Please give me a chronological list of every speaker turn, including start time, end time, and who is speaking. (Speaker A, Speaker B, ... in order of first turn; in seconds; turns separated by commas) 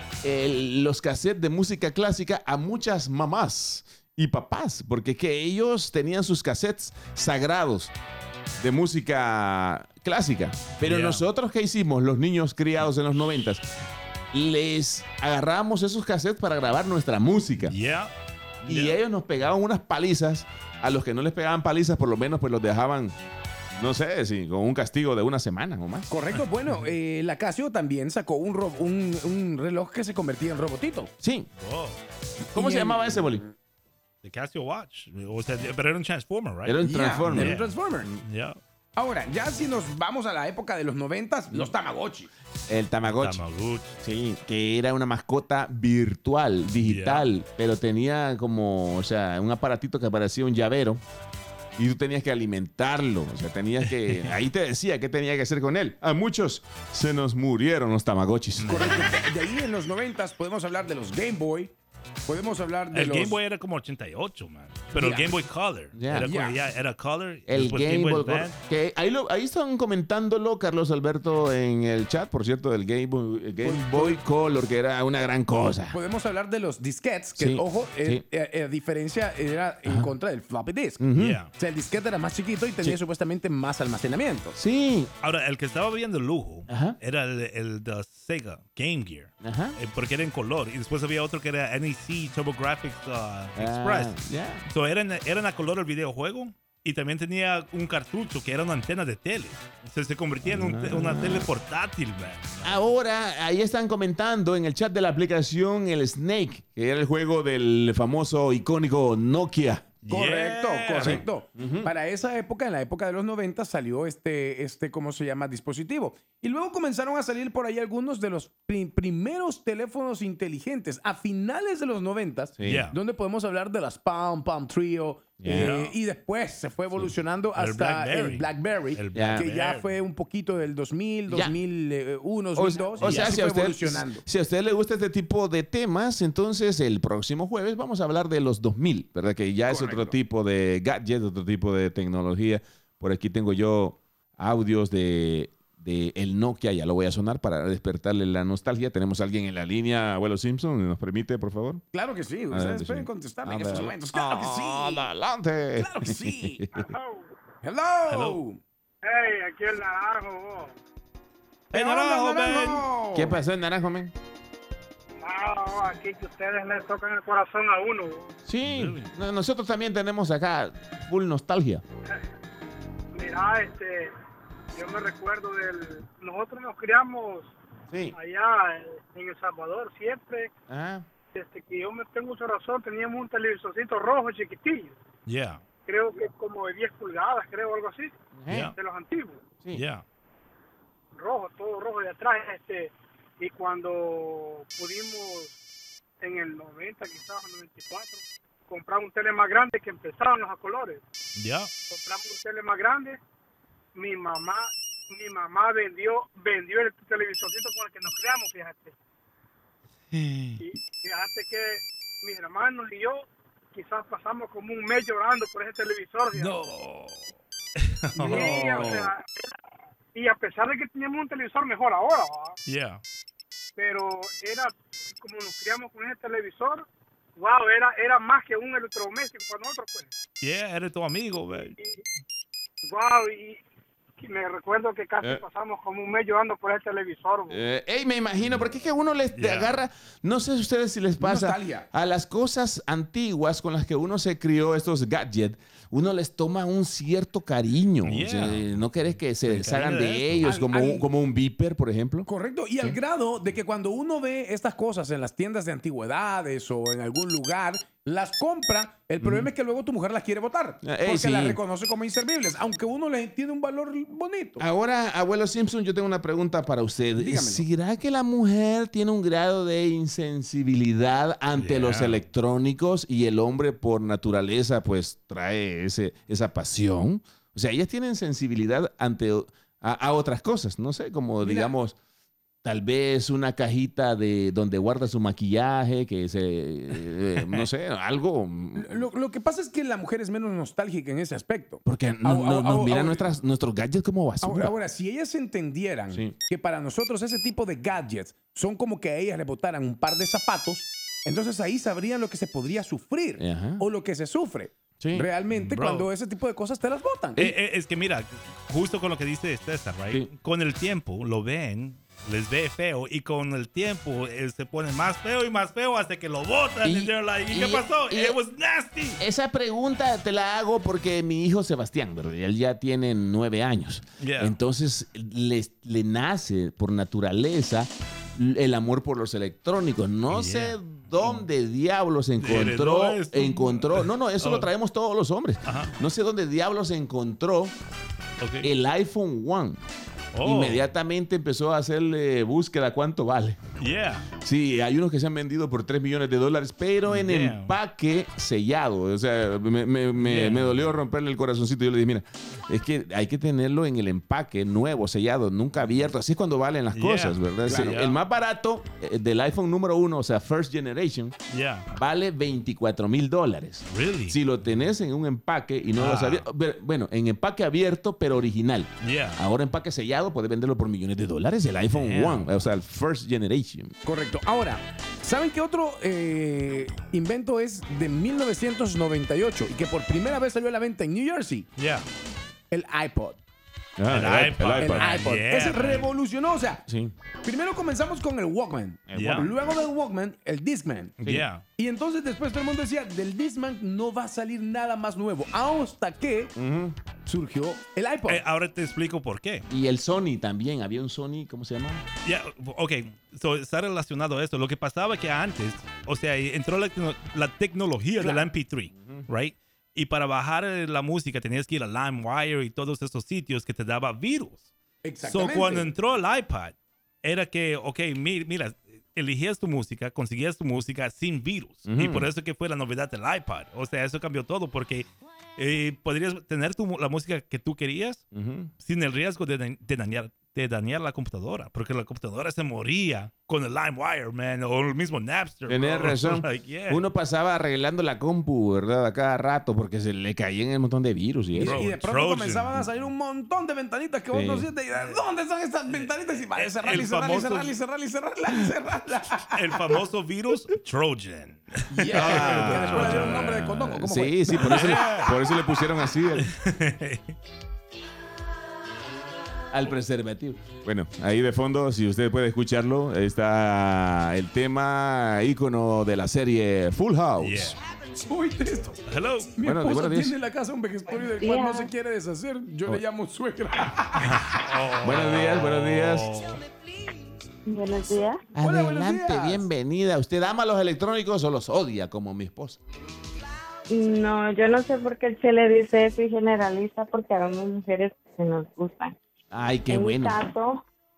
Speaker A: 0.2-7.9, Speaker A: 8.6-13.7, Speaker B: 10.8-11.3, Speaker A: 14.3-17.8, Speaker B: 17.6-18.1, Speaker A: 18.6-23.2, Speaker B: 18.7-19.0, Speaker A: 23.8-26.1, Speaker C: 26.1-31.1, Speaker B: 26.3-26.8, Speaker A: 31.2-31.5, Speaker B: 31.6-32.0, Speaker A: 32.5-33.5, Speaker C: 32.5-33.5, Speaker B: 34.2-38.6, Speaker A: 36.6-38.2, Speaker C: 36.8-38.1, Speaker C: 39.0-42.3, Speaker A: 42.7-43.4, Speaker B: 43.1-44.0, Speaker A: 44.0-51.0, Speaker B: 46.8-47.3, Speaker A: 51.8-58.8, Speaker B: 58.6-59.1, Speaker C: 58.7-61.7, Speaker C: 62.3-63.4, Speaker B: 62.9-68.6, Speaker C: 64.9-65.4, Speaker A: 65.9-66.3, Speaker C: 66.2-66.6, Speaker A: 67.5-76.0, Speaker C: 73.6-74.2, Speaker C: 75.9-84.6, Speaker A: 77.4-78.2, Speaker A: 81.0-81.4, Speaker B: 81.2-81.5, Speaker A: 84.6-85.1, Speaker B: 85.2-94.2, Speaker A: 86.7-87.0, Speaker A: 89.4-89.8, Speaker A: 93.6-94.7, Speaker B: 94.7-102.9, Speaker A: 100.5-101.5, Speaker A: 102.6-109.9, Speaker B: 110.0-111.2, Speaker C: 110.1-134.2, Speaker A: 111.0-111.9, Speaker A: 122.6-122.8, Speaker B: 122.6-123.0, Speaker A: 125.4-125.8, Speaker B: 125.5-126.0, Speaker B: 127.6-129.9, Speaker A: 129.1-129.4, Speaker A: 131.3-131.6, Speaker A: 132.6-151.8, Speaker B: 132.9-133.4, Speaker C: 139.7-140.2, Speaker C: 151.9-155.1, Speaker A: 152.5-156.9, Speaker C: 155.8-156.7, Speaker D: 156.7-157.3, Speaker C: 157.6-158.6, Speaker B: 158.1-158.4, Speaker D: 159.0-160.7, Speaker B: 161.7-162.9, Speaker C: 161.7-163.4, Speaker A: 163.1-164.1, Speaker D: 165.2-168.3, Speaker A: 168.5-171.8, Speaker B: 168.7-169.1, Speaker D: 173.1-174.1, Speaker D: 174.8-177.5, Speaker A: 177.9-178.2, Speaker D: 178.1-180.5, Speaker A: 180.7-181.1, Speaker D: 181.3-184.9, Speaker B: 185.3-185.6, Speaker D: 185.9-188.1, Speaker A: 188.3-188.7, Speaker B: 188.5-188.7, Speaker D: 188.8-189.4, Speaker B: 189.7-190.0, Speaker D: 191.2-195.6, Speaker D: 196.2-201.0, Speaker B: 201.4-201.7, Speaker D: 201.9-203.2, Speaker D: 203.9-208.9, Speaker B: 210.1-210.6, Speaker D: 210.6-216.6, Speaker B: 216.3-217.3, Speaker B: 217.8-219.1, Speaker D: 218.2-219.3, Speaker D: 220.1-222.6, Speaker B: 222.7-223.0, Speaker D: 223.8-230.1, Speaker B: 230.4-231.8, Speaker D: 231.8-232.0, Speaker D: 232.9-233.6, Speaker D: 234.2-237.6, Speaker A: 237.5-252.3, Speaker B: 239.3-239.8, Speaker C: 241.2-241.9, Speaker B: 248.0-250.5, Speaker C: 250.4-251.1, Speaker C: 252.3-264.6, Speaker A: 259.2-259.5, Speaker A: 260.8-261.6, Speaker A: 264.6-282.0, Speaker C: 267.2-267.7, Speaker B: 271.6-272.2, Speaker C: 281.4-281.8, Speaker A: 282.6-289.1, Speaker B: 287.4-287.7, Speaker C: 288.8-293.3, Speaker A: 291.9-294.7, Speaker C: 294.4-307.4, Speaker A: 303.4-303.8, Speaker A: 305.0-305.3, Speaker B: 305.5-306.1, Speaker B: 307.4-319.2, Speaker A: 316.8-318.4, Speaker A: 319.2-337.7, Speaker B: 324.2-324.6, Speaker B: 330.3-331.4, Speaker B: 332.4-334.7, Speaker B: 335.6-335.9, Speaker B: 338.4-338.7, Speaker A: 338.6-339.8, Speaker B: 340.3-340.8, Speaker A: 340.4-343.6, Speaker B: 343.8-344.3, Speaker A: 344.4-361.3, Speaker B: 347.1-347.8, Speaker B: 350.2-350.9, Speaker B: 356.9-358.2, Speaker C: 357.7-358.0, Speaker B: 361.5-361.9, Speaker A: 361.9-373.9, Speaker B: 363.9-364.4, Speaker B: 366.0-366.5, Speaker B: 369.0-369.4, Speaker B: 371.9-372.5, Speaker C: 374.0-381.7, Speaker B: 381.8-382.1, Speaker C: 382.7-383.4, Speaker A: 384.0-385.1, Speaker B: 384.1-386.1, Speaker C: 384.7-386.8, Speaker A: 386.9-387.1, Speaker C: 387.4-391.1, Speaker A: 389.1-389.5, Speaker B: 389.1-389.5, Speaker B: 391.2-391.6, Speaker C: 391.8-396.5, Speaker A: 396.6-397.0, Speaker C: 397.2-398.4, Speaker B: 398.3-399.7, Speaker A: 399.7-402.0, Speaker B: 402.2-414.7, Speaker C: 408.2-408.5, Speaker A: 408.9-409.3, Speaker C: 415.0-415.9, Speaker B: 415.2-428.2, Speaker A: 421.9-422.3, Speaker A: 428.3-428.7, Speaker B: 428.8-437.0, Speaker A: 435.7-441.8, Speaker C: 441.6-450.0, Speaker B: 441.6-442.9, Speaker A: 444.3-444.7, Speaker B: 444.9-445.2, Speaker B: 445.9-447.8, Speaker B: 449.5-453.6, Speaker C: 451.9-455.3, Speaker A: 452.1-456.5, Speaker B: 454.6-455.4, Speaker B: 456.4-457.4, Speaker A: 459.7-467.8, Speaker B: 467.4-467.8, Speaker C: 468.3-469.0, Speaker B: 469.1-469.6, Speaker C: 469.6-474.4, Speaker A: 469.6-470.3, Speaker E: 471.3-471.9, Speaker B: 474.2-476.6, Speaker A: 475.0-476.3, Speaker E: 477.7-478.4, Speaker A: 478.6-482.8, Speaker C: 478.6-479.7, Speaker E: 483.9-489.1, Speaker A: 489.5-490.4, Speaker E: 489.9-490.8